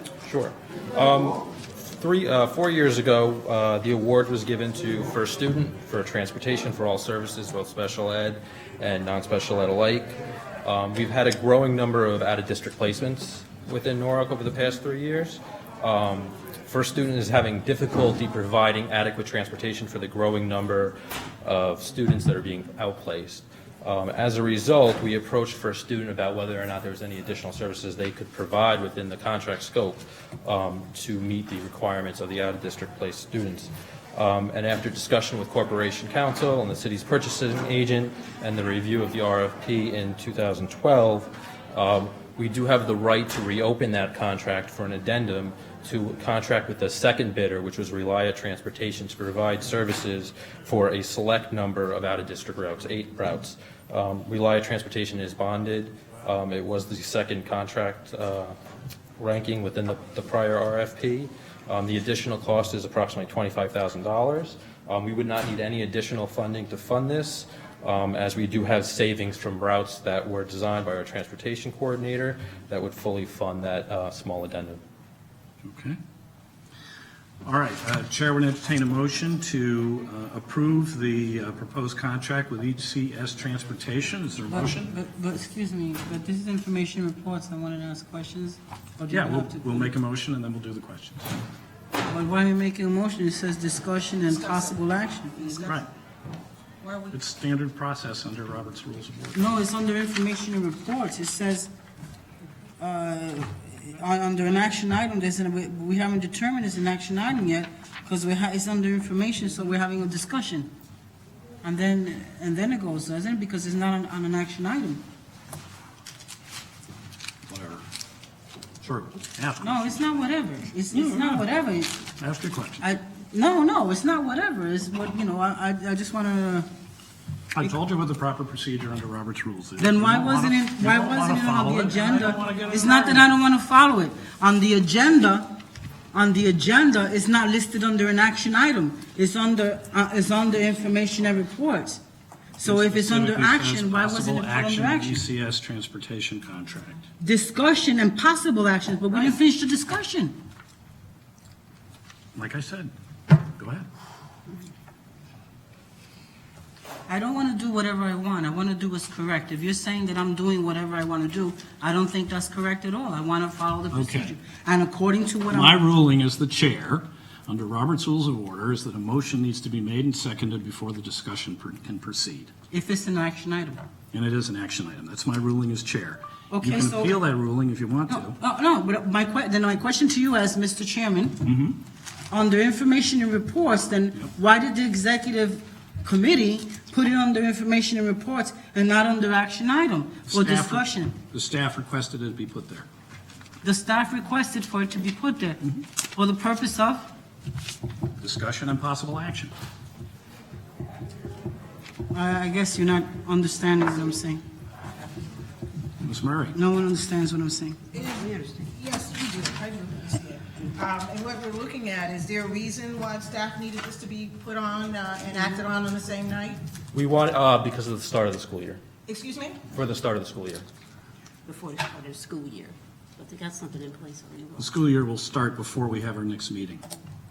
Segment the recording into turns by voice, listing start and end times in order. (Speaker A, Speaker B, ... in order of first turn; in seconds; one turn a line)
Speaker A: 0.2-58.5
Speaker A: 59.2-74.8
Speaker B: 75.6-76.0
Speaker B: 77.5-84.9
Speaker C: 84.5-89.9
Speaker B: 89.1-91.3
Speaker C: 92.0-95.7
Speaker D: 96.8-97.1
Speaker B: 97.1-99.6
Speaker C: 99.3-101.7
Speaker C: 102.8-110.7
Speaker C: 111.6-115.0
Speaker B: 117.5-117.8
Speaker B: 118.8-120.0
Speaker C: 119.6-122.0
Speaker B: 120.9-121.5
Speaker B: 122.2-122.9
Speaker C: 122.8-126.7
Speaker B: 127.5-133.3
Speaker C: 129.8-135.5
Speaker C: 136.1-142.0
Speaker C: 142.6-145.2
Speaker B: 142.6-147.0
Speaker C: 147.2-150.3
Speaker B: 152.3-152.9
Speaker B: 153.4-153.9
Speaker C: 157.1-165.8
Speaker B: 163.9-164.4
Speaker B: 165.5-172.5
Speaker C: 172.7-173.8
Speaker B: 174.1-178.4
Speaker C: 176.5-177.2
Speaker C: 178.1-181.4
Speaker B: 181.4-181.8
Speaker C: 182.3-191.2
Speaker B: 190.3-192.9
Speaker C: 193.6-195.6
Speaker C: 196.1-197.1
Speaker B: 198.2-199.5
Speaker C: 202.1-204.4
Speaker B: 206.0-206.6
Speaker C: 206.5-207.8
Speaker D: 207.9-216.6
Speaker E: 208.2-208.7
Speaker A: 216.9-218.8
Speaker D: 219.1-219.6
Speaker A: 219.7-220.7
Speaker E: 221.5-224.7
Speaker B: 224.6-226.8